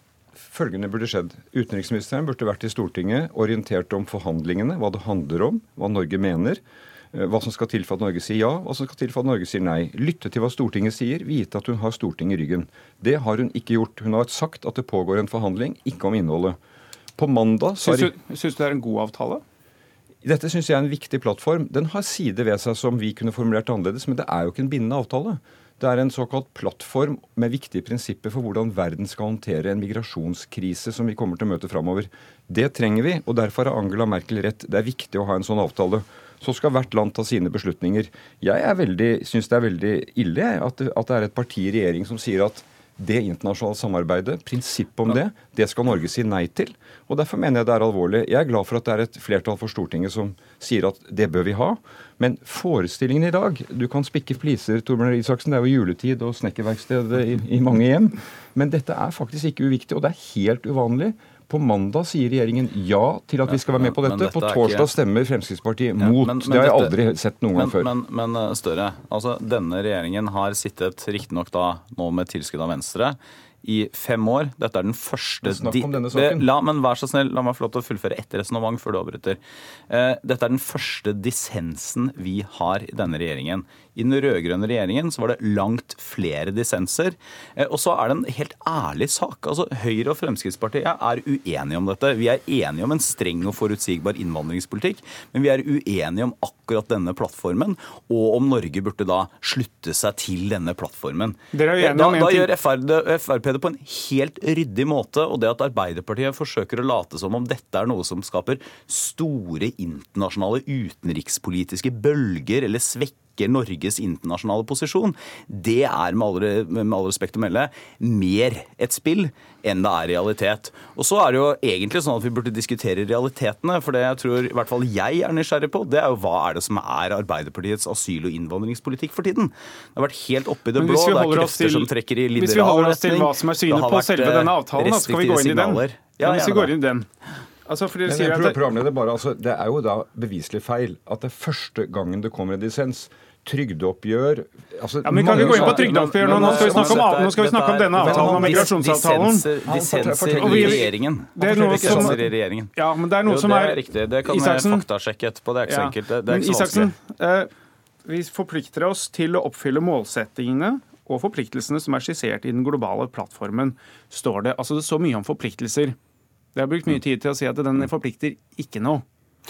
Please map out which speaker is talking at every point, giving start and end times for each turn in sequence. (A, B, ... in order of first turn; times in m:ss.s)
0:00.4-0:06.6 A
0:07.1-0:16.6 A
0:17.2-0:18.1 A
0:17.8-0:19.4 B
0:20.2-1:07.9 A
1:03.5-1:04.9 C
1:06.0-1:07.0 C
1:07.6-2:16.8 C
1:15.4-1:16.5 A
1:41.5-1:42.5 B
2:10.7-2:17.0 B
2:17.6-2:18.6 B
2:18.0-2:27.1 A
2:25.0-2:34.8 B
2:25.3-2:32.7 C
2:28.0-2:28.7 A
2:29.6-2:32.2 A
2:33.2-2:36.9 C
2:35.7-2:37.5 B
2:38.0-2:46.0 B
2:46.5-2:49.0 B